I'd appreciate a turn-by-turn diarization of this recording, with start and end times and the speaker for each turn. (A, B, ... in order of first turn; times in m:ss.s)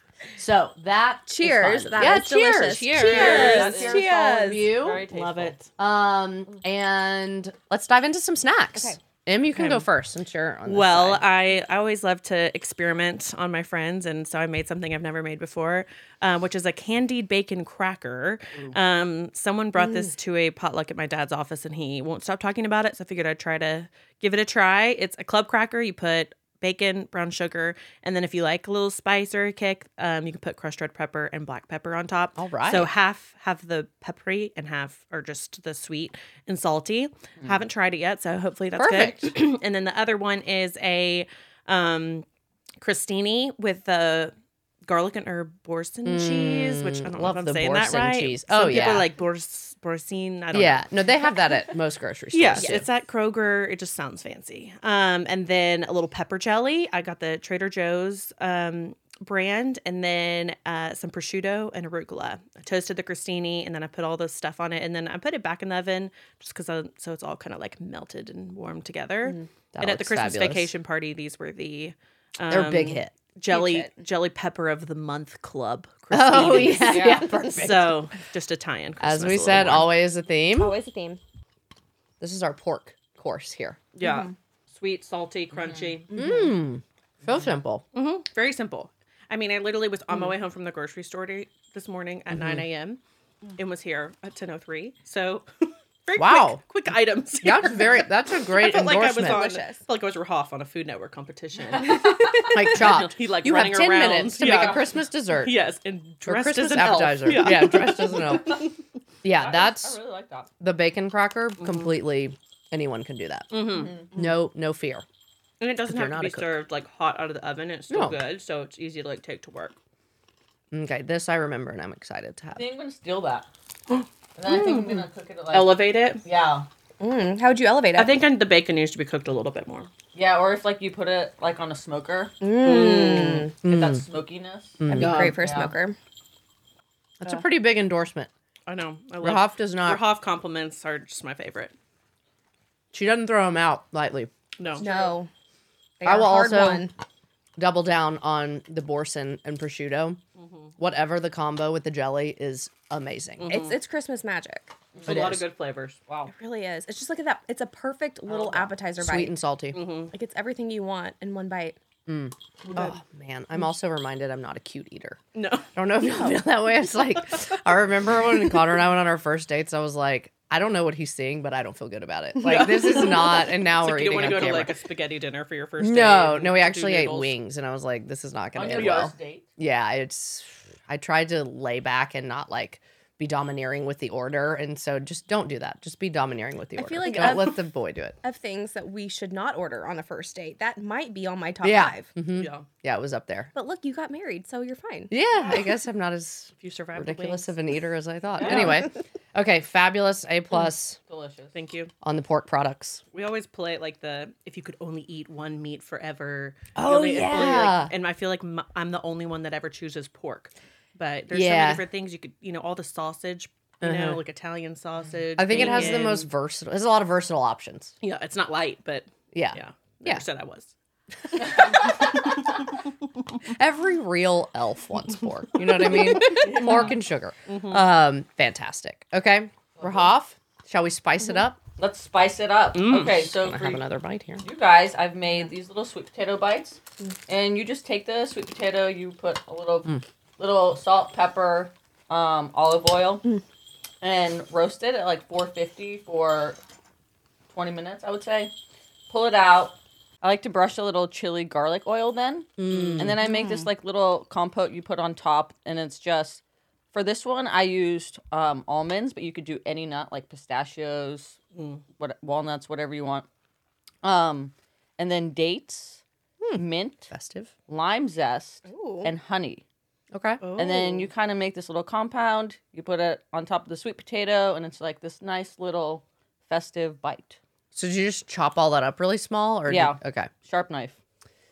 0:00.4-0:05.0 A
0:01.3-0:04.8 B
0:02.9-0:05.6 C
0:03.1-0:03.8 D
0:05.0-0:05.7 D
0:05.8-0:11.2 A
0:09.5-0:09.8 D
0:10.6-0:42.2 D
0:19.8-0:20.1 B
0:32.4-0:32.9 A
0:38.8-0:39.3 A
0:42.8-0:44.3 D
0:44.8-0:50.8 D
0:46.0-0:49.1 A
0:50.5-0:52.8 A
0:52.3-1:19.9 D
1:09.7-1:10.7 A
1:12.5-1:13.1 A
1:13.5-1:13.9 B
1:16.1-1:18.0 A
1:16.8-1:17.3 C
1:19.0-1:20.7 A
1:20.6-1:21.2 B
1:22.2-1:23.8 A
1:23.9-1:26.1 D
1:24.0-1:24.3 B
1:25.5-1:26.0 C
1:26.1-1:26.5 B
1:26.1-1:27.8 A
1:27.9-1:33.0 D
1:32.3-1:32.6 A
1:33.6-1:48.7 D
1:36.2-1:36.6 A
1:37.4-1:39.4 A
1:39.2-1:39.8 B
1:42.5-1:45.5 A
1:44.4-1:44.9 C
1:46.2-1:48.7 A
1:49.2-1:50.0 A
1:49.4-1:50.5 C
1:50.6-1:53.5 A
1:51.6-1:51.9 D
1:53.5-1:54.0 D
1:53.7-1:54.1 C
1:54.1-1:55.0 A
1:55.6-1:59.7 D
1:55.9-1:56.5 A
1:57.9-1:58.2 A
2:00.7-2:02.7 A
2:02.6-2:03.5 C
2:04.4-2:06.7 C
2:04.6-2:04.9 D
2:05.5-2:06.2 D
2:07.0-2:08.2 B
2:08.0-2:09.9 D
2:10.1-2:12.3 C
2:12.4-2:13.5 B
2:12.6-2:13.5 D
2:13.6-2:15.7 C
2:13.6-2:14.0 A
2:14.8-2:15.3 A
2:14.9-2:16.0 B
2:17.2-2:18.3 A
2:18.7-2:21.7 D
2:19.2-2:20.0 A
2:22.9-2:24.3 A
2:24.6-2:25.1 D
2:24.8-2:25.3 B
2:26.0-2:26.9 B
2:26.0-2:26.9 A
2:27.6-2:30.2 A
2:30.4-2:30.7 D
2:30.8-2:33.5 A
2:33.4-2:33.8 D
2:33.5-2:34.7 B
2:34.9-2:35.4 C
2:35.0-2:36.0 D
2:35.1-2:35.4 A
2:36.1-2:36.3 C
2:36.3-2:39.4 B
2:38.4-2:38.6 D
2:39.0-2:39.8 A
2:39.7-2:40.1 D
2:40.1-2:41.8 B
2:42.1-2:45.2 A
2:45.3-2:45.7 D
2:45.7-2:54.7 A
2:52.4-2:57.4 D
2:55.8-3:08.2 A
2:58.5-2:59.4 C
2:58.6-2:59.1 D
3:06.8-3:07.6 B
3:07.1-3:07.3 D
3:08.2-3:12.1 B
3:11.6-3:13.5 A
3:12.3-3:12.6 D
3:13.5-3:15.1 B
3:15.1-3:21.0 A
3:16.6-3:17.5 D
3:18.4-3:18.9 C
3:18.4-3:18.7 D
3:21.1-3:21.5 C
3:21.5-3:21.9 D
3:22.0-3:23.0 A
3:23.1-3:36.2 D
3:26.7-3:27.9 A
3:31.3-3:31.8 A
3:33.8-3:34.2 A
3:35.4-3:37.9 A
3:35.5-3:36.1 C
3:38.0-3:40.7 D
3:39.3-3:40.2 A
3:41.3-3:42.9 D
3:43.5-3:51.6 A
3:45.9-3:46.9 D
3:46.2-3:46.9 C
3:47.5-3:47.8 D
3:49.8-3:50.1 C
3:51.8-3:53.8 C
3:52.7-3:53.2 D
3:53.3-3:54.4 A
3:54.4-4:03.3 C
4:04.0-4:06.6 C
4:07.5-4:08.5 C
4:09.1-4:16.4 C
4:12.6-4:13.2 A
4:13.2-4:13.6 B
4:16.9-4:21.4 C
4:21.5-4:21.8 D
4:22.0-4:23.3 C
4:24.0-4:26.0 C
4:26.4-4:27.5 A
4:26.6-4:27.1 C
4:27.7-4:29.6 C
4:28.7-4:29.1 B
4:30.1-4:30.4 A
4:30.4-4:31.1 D
4:30.6-4:37.4 C
4:37.7-4:40.3 A
4:39.7-4:41.0 C